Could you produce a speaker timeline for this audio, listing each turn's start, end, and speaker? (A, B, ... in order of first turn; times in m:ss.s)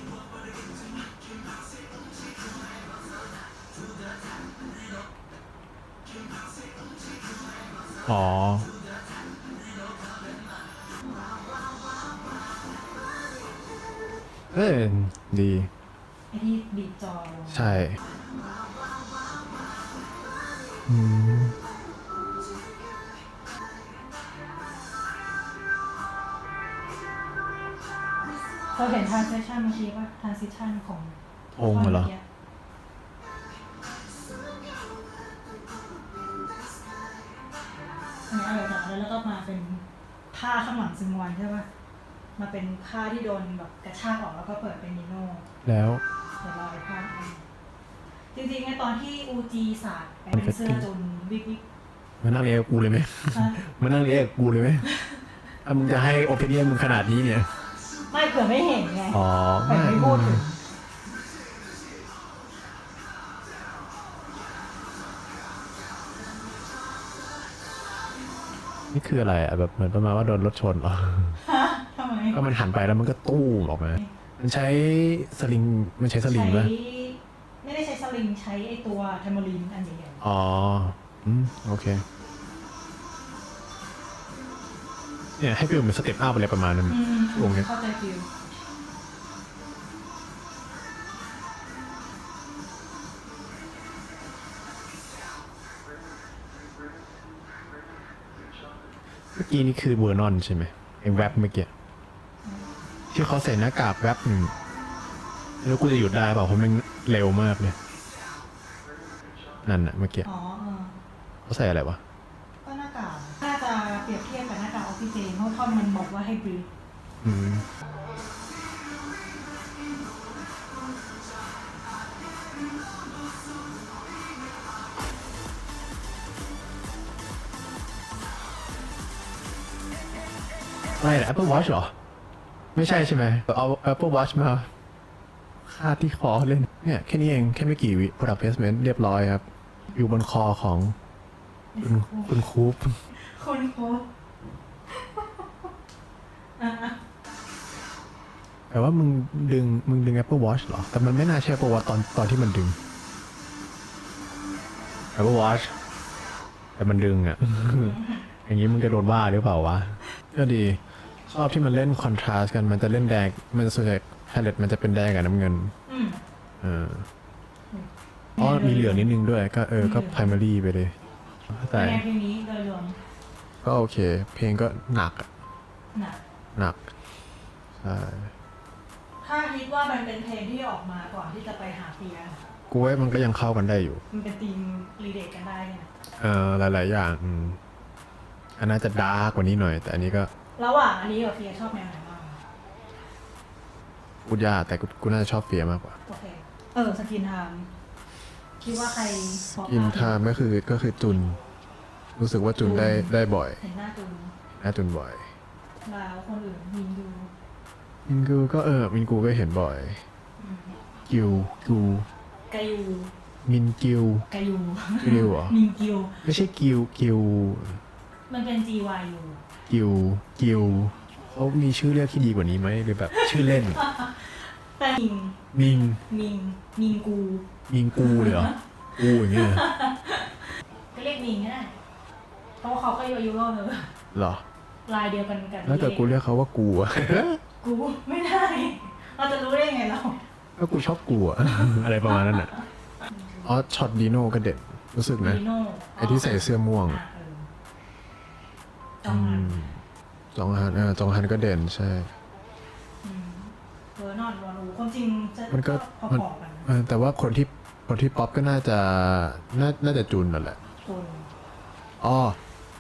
0:08.0-0:08.7 A
0:14.5-0:15.7 A
0:16.3-0:17.8 B
0:17.5-0:18.0 A
0:20.9-0:21.6 A
0:28.7-0:32.2 B
0:31.6-0:32.1 A
0:38.3-0:41.7 B
0:42.4-0:45.4 B
0:45.6-0:46.0 A
0:46.4-0:47.4 B
0:48.3-0:51.6 B
0:50.3-0:50.9 A
0:52.2-0:54.9 A
0:53.3-0:53.6 B
0:54.9-0:55.2 B
0:55.6-0:57.5 A
0:58.1-1:00.6 B
0:59.1-1:00.4 A
1:08.9-1:11.4 A
1:11.4-1:12.4 B
1:12.3-1:16.7 A
1:16.2-1:20.2 B
1:20.2-1:22.0 A
1:25.4-1:27.7 A
1:26.9-1:28.3 B
1:39.3-1:41.7 A
1:41.1-1:41.4 B
1:43.1-1:44.5 A
1:45.6-1:47.8 A
1:49.6-1:50.3 A
1:50.2-1:51.0 B
1:51.5-1:52.0 A
1:52.6-1:56.7 B
1:57.2-1:57.7 A
2:11.0-2:11.9 A
2:12.8-2:14.7 A
2:15.6-2:21.0 A
2:21.7-2:22.4 B
2:21.8-2:23.0 A
2:23.1-2:24.1 B
2:24.9-2:25.7 B
2:26.6-2:27.0 B
2:28.7-2:32.8 A
2:35.2-2:35.7 A
2:36.8-2:45.7 A
2:37.8-2:38.3 B
2:45.9-2:46.2 B
2:46.6-2:47.1 A
2:47.7-2:49.2 B
2:48.4-2:51.0 A
2:49.8-2:50.4 B
2:51.5-2:52.0 A
2:51.7-2:53.0 B
2:53.6-2:55.3 A
2:55.9-2:56.2 B
2:57.8-2:58.3 A
2:59.2-3:02.4 B
3:02.7-3:04.0 A
3:04.1-3:05.9 B
3:06.2-3:07.6 A
3:08.6-3:10.3 A
3:10.6-3:12.4 B
3:14.2-3:16.0 A
3:16.1-3:17.7 B
3:18.6-3:20.2 B
3:19.6-3:21.4 A
3:22.2-3:23.6 A
3:22.6-3:24.3 B
3:24.6-3:25.3 A
3:25.8-3:27.3 B
3:28.1-3:30.0 A
3:30.4-3:30.8 B
3:31.1-3:32.1 A
3:32.5-3:33.1 B
3:33.4-3:34.3 A
3:34.3-3:36.2 B
3:35.0-3:35.6 A
3:36.2-3:37.8 A
3:38.3-3:39.4 B
3:39.7-3:43.8 A
3:43.1-3:45.4 B
3:45.5-3:46.0 A
3:46.1-3:51.8 B
3:47.7-3:49.6 A
3:52.6-3:53.9 B
3:54.1-3:54.4 A
3:54.9-3:56.1 B
3:55.6-3:57.4 A
3:57.6-4:00.2 B
4:00.6-4:02.5 A
4:02.3-4:03.5 B
4:03.4-4:05.4 A
4:05.2-4:07.5 B
4:06.0-4:07.0 A
4:09.0-4:09.6 B
4:09.1-4:09.8 A
4:10.3-4:12.1 A
4:13.0-4:16.7 B
4:15.5-4:20.6 A
4:20.8-4:21.3 B
4:22.0-4:22.4 A